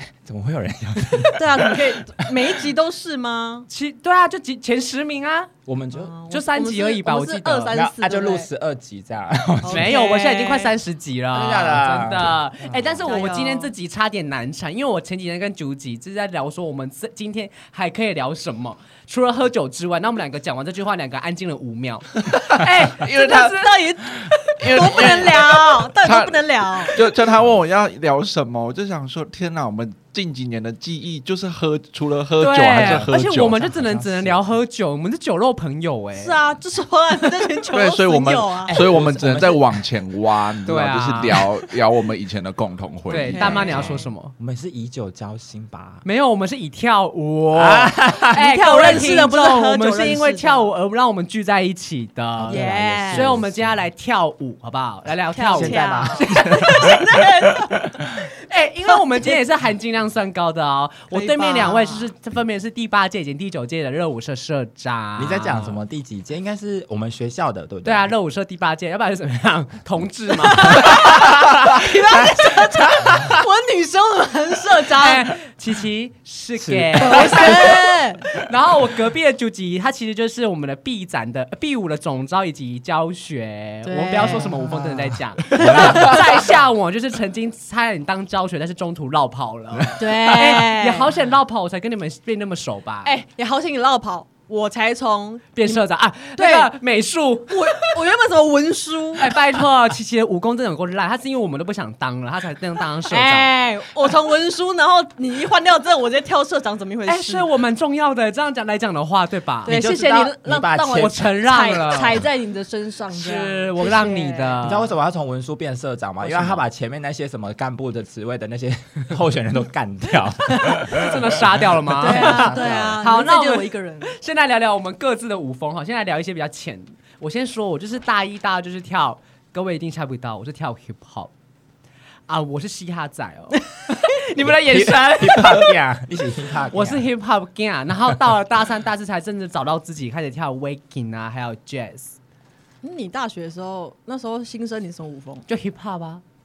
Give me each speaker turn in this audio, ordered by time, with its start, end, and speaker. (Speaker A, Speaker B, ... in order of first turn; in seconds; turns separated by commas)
Speaker A: 0.2-2.6, Speaker B: 1.3-3.7, Speaker C: 3.7-5.5, Speaker A: 5.7-6.1, Speaker B: 5.9-8.5, Speaker C: 6.3-7.8, Speaker A: 7.7-10.0, Speaker B: 9.6-10.7, Speaker C: 9.7-23.7, Speaker A: 11.3-12.9, Speaker B: 12.9-13.7, Speaker D: 22.6-23.7, Speaker B: 23.2-27.0, Speaker D: 24.4-33.8, Speaker C: 32.4-36.4, Speaker A: 32.7-34.4, Speaker B: 36.1-39.0, Speaker D: 37.7-43.9, Speaker A: 38.7-39.8, Speaker C: 40.6-41.4, Speaker C: 43.1-44.3, Speaker A: 43.2-46.0, Speaker B: 43.2-44.1, Speaker C: 46.0-56.9, Speaker A: 47.5-48.9, Speaker B: 48.3-50.7, Speaker A: 52.4-53.8, Speaker B: 52.5-53.3, Speaker B: 55.3-57.8, Speaker A: 55.5-57.0, Speaker C: 58.4-65.8, Speaker B: 61.1-62.1, Speaker A: 65.2-68.1, Speaker C: 67.8-71.2, Speaker B: 70.5-75.3, Speaker C: 75.0-93.1, Speaker A: 76.6-77.8, Speaker B: 77.0-78.3, Speaker B: 83.8-86.4, Speaker A: 84.8-86.4, Speaker B: 90.0-91.1, Speaker B: 93.0-95.8, Speaker C: 95.5-98.0, Speaker B: 96.3-96.7, Speaker B: 97.5-99.4, Speaker C: 99.2-103.5, Speaker B: 103.0-107.5, Speaker C: 107.0-109.8, Speaker A: 109.7-111.2, Speaker B: 109.7-114.6, Speaker C: 110.9-112.3, Speaker C: 113.1-114.9, Speaker A: 114.6-123.0, Speaker C: 116.2-116.6, Speaker C: 120.9-131.3, Speaker B: 122.0-124.1, Speaker C: 132.3-135.7, Speaker A: 134.4-137.1, Speaker C: 136.7-142.2, Speaker B: 142.8-145.4, Speaker C: 145.5-146.2